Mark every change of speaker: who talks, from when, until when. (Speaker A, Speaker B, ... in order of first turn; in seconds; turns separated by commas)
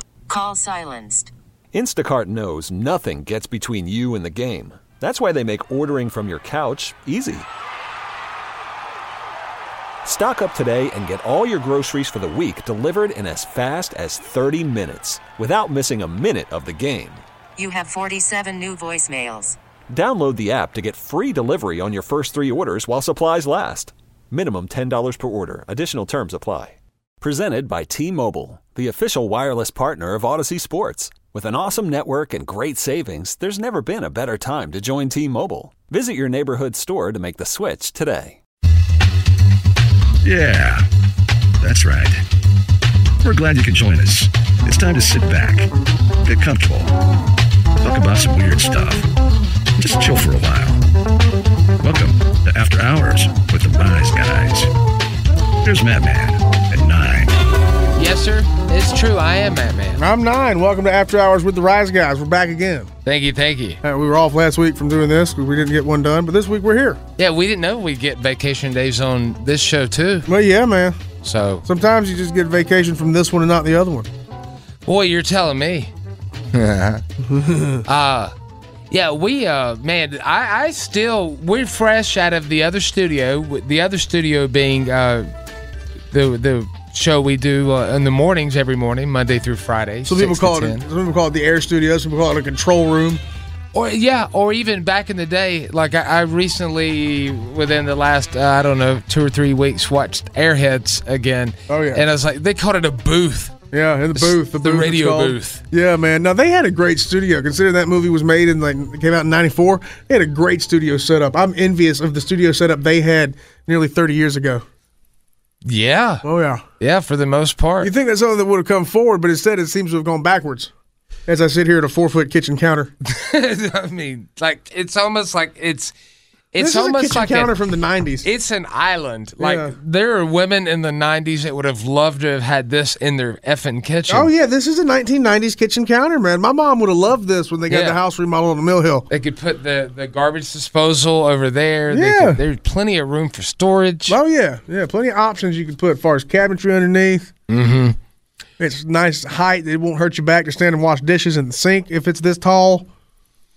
Speaker A: 0.3-1.3, Speaker B: 1.7-7.5, Speaker B: 10.0-17.2, Speaker A: 17.6-19.6, Speaker B: 19.9-38.4, Speaker C: 40.2-40.9, Speaker C: 41.6-42.2, Speaker C: 43.2-45.7, Speaker C: 46.2-47.0, Speaker C: 47.8-49.1, Speaker C: 49.8-50.8, Speaker C: 51.8-54.7, Speaker C: 55.6-57.4, Speaker D: 57.9-60.0, Speaker E: 60.0-62.9, Speaker D: 63.0-63.8, Speaker E: 63.8-67.0, Speaker D: 67.2-70.3, Speaker E: 70.3-71.0, Speaker D: 71.2-71.6, Speaker E: 71.6-74.1, Speaker D: 74.8-75.9, Speaker D: 76.5-77.0, Speaker E: 77.3-77.8, Speaker D: 77.8-78.3, Speaker D: 78.9-85.3, Speaker D: 86.1-90.8, Speaker E: 90.0-93.2, Speaker D: 93.7-103.5, Speaker E: 101.7-102.0, Speaker E: 103.7-114.6, Speaker D: 104.1-105.6, Speaker D: 115.6-116.2, Speaker E: 116.2-116.6, Speaker D: 116.8-117.9, Speaker E: 117.8-120.7, Speaker E: 121.3-122.9, Speaker D: 123.0-125.9, Speaker D: 126.5-127.5, Speaker E: 126.6-128.3, Speaker D: 128.2-134.3, Speaker E: 129.4-129.8, Speaker E: 134.1-139.1, Speaker D: 137.7-138.0, Speaker D: 139.1-144.2, Speaker E: 141.9-142.4, Speaker E: 144.1-147.3, Speaker D: 147.5-148.0, Speaker E: 148.6-152.9